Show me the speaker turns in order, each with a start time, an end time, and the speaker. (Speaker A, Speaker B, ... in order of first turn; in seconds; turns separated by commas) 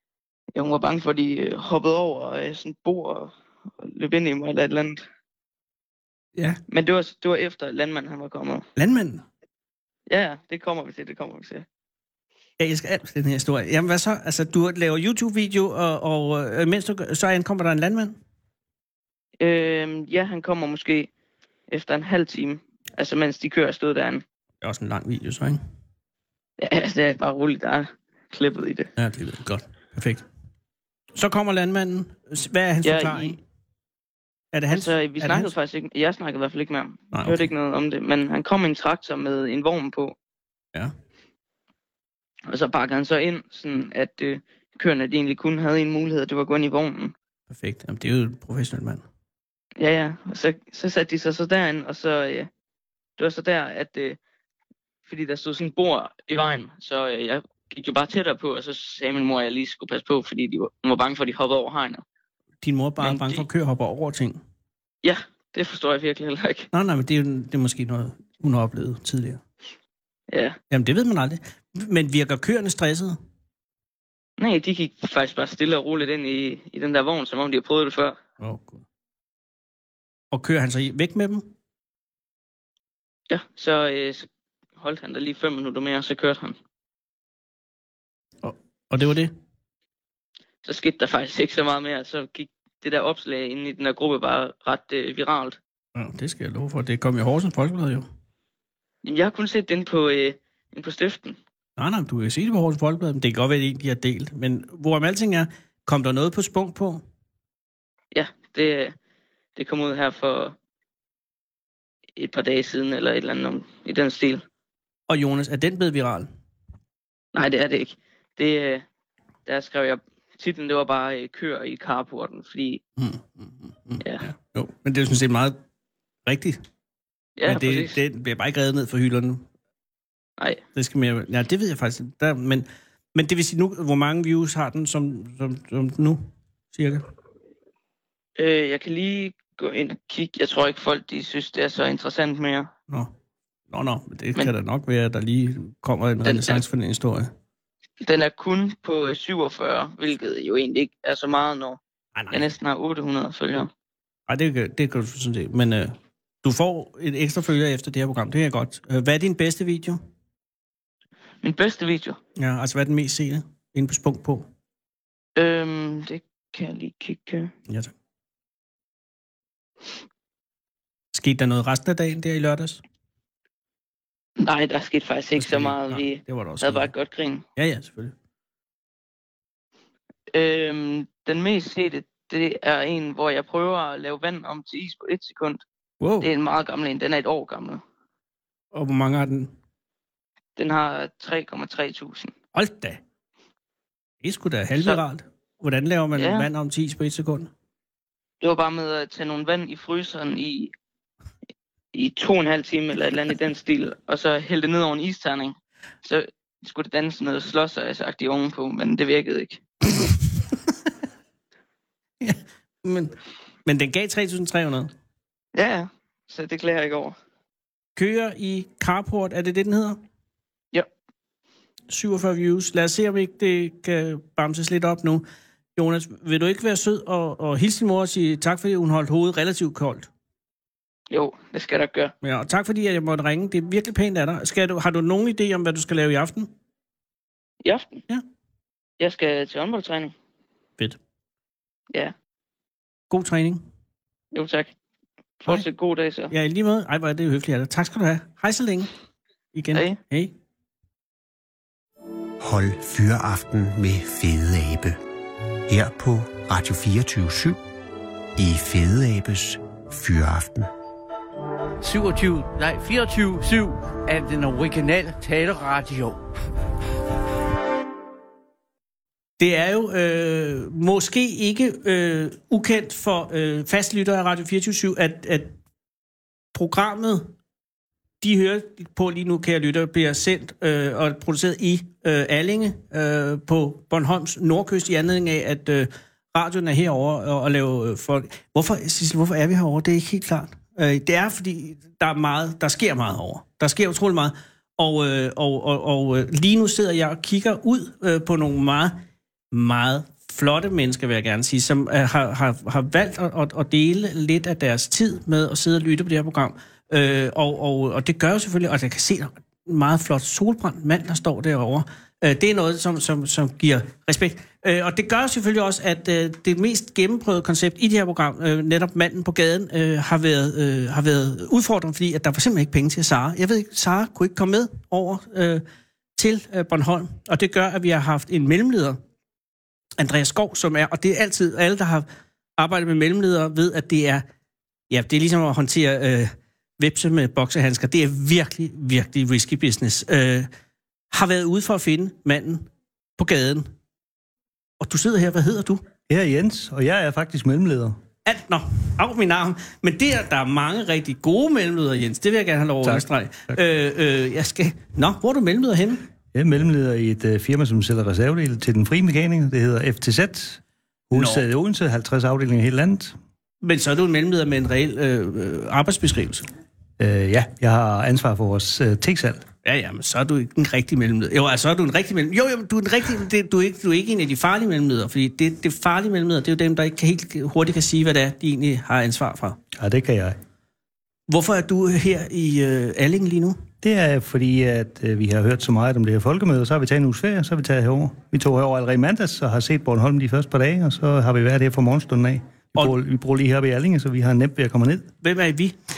Speaker A: 0.5-5.0, Speaker B: 6.3-6.6, Speaker A: 6.7-8.7, Speaker B: 8.8-9.2, Speaker A: 10.1-11.7, Speaker B: 12.6-18.2, Speaker A: 19.4-21.1, Speaker A: 21.7-24.2, Speaker B: 24.6-25.6, Speaker A: 26.6-28.9, Speaker B: 29.0-30.2, Speaker B: 31.1-33.4, Speaker A: 32.8-33.4, Speaker B: 34.5-35.5, Speaker A: 34.7-40.1, Speaker B: 37.1-37.5, Speaker A: 42.5-47.1, Speaker B: 47.5-49.0, Speaker A: 49.8-52.5, Speaker A: 53.2-54.2, Speaker A: 55.0-62.0, Speaker B: 62.6-64.4, Speaker A: 63.0-63.4, Speaker A: 65.0-66.7, Speaker B: 66.7-69.4, Speaker A: 70.3-70.6, Speaker B: 70.7-73.2, Speaker A: 74.4-78.2, Speaker B: 78.4-78.8, Speaker B: 80.3-81.5, Speaker A: 83.3-86.6, Speaker B: 88.4-89.3, Speaker A: 90.6-95.6, Speaker B: 95.9-98.0, Speaker A: 99.0-101.4, Speaker B: 101.8-107.0, Speaker A: 108.1-109.0, Speaker A: 109.5-110.5, Speaker A: 112.2-114.4, Speaker B: 115.1-116.3, Speaker A: 117.3-118.8, Speaker A: 119.5-122.8, Speaker B: 123.0-125.6, Speaker B: 126.2-126.6, Speaker A: 127.4-128.0, Speaker B: 127.4-129.4, Speaker B: 130.7-137.1, Speaker A: 138.4-142.7, Speaker B: 143.7-147.3, Speaker A: 146.2-146.6, Speaker A: 148.0-151.8, Speaker B: 152.1-152.4, Speaker A: 152.3-153.7, Speaker B: 154.3-160.0, Speaker A: 161.4-162.2, Speaker B: 162.4-164.5, Speaker A: 165.3-167.5, Speaker B: 167.7-167.9, Speaker B: 171.1-172.8, Speaker A: 174.4-177.4, Speaker B: 175.3-176.9, Speaker B: 177.6-178.1, Speaker A: 180.3-185.6, Speaker B: 186.0-186.3, Speaker A: 186.2-187.8, Speaker B: 188.7-189.5, Speaker A: 190.6-192.3, Speaker B: 192.5-193.0, Speaker B: 194.2-197.5, Speaker A: 196.1-196.5, Speaker A: 198.4-200.7, Speaker A: 201.9-209.6, Speaker B: 209.9-210.6, Speaker B: 212.2-214.9, Speaker A: 215.5-217.2, Speaker B: 217.9-220.0, Speaker B: 221.9-225.2, Speaker B: 225.8-230.1, Speaker A: 231.1-232.1, Speaker B: 232.2-236.5, Speaker A: 237.6-238.0, Speaker A: 239.0-240.1, Speaker B: 243.1-243.6, Speaker A: 244.3-244.7, Speaker A: 245.4-246.3, Speaker B: 246.3-248.9, Speaker B: 249.5-250.3, Speaker A: 249.7-250.0, Speaker C: 252.4-255.0, Speaker C: 255.7-257.6, Speaker C: 258.4-260.7, Speaker D: 261.8-266.2, Speaker B: 269.4-275.5, Speaker B: 276.5-277.3, Speaker B: 278.2-299.0, Speaker B: 299.5-325.6, Speaker B: 326.1-329.0, Speaker B: 330.0-334.2, Speaker B: 334.9-340.5, Speaker B: 341.1-343.7, Speaker B: 344.8-345.9, Speaker E: 346.1-348.0, Speaker B: 348.2-356.1, Speaker E: 352.8-353.6, Speaker E: 356.3-363.1, Speaker B: 361.1-361.4, Speaker B: 363.6-366.5, Speaker E: 367.0-369.5, Speaker B: 369.6-379.6, Speaker E: 379.7-380.4, Speaker B: 381.3-383.6, Speaker E: 383.8-395.1, Speaker B: 395.2-395.8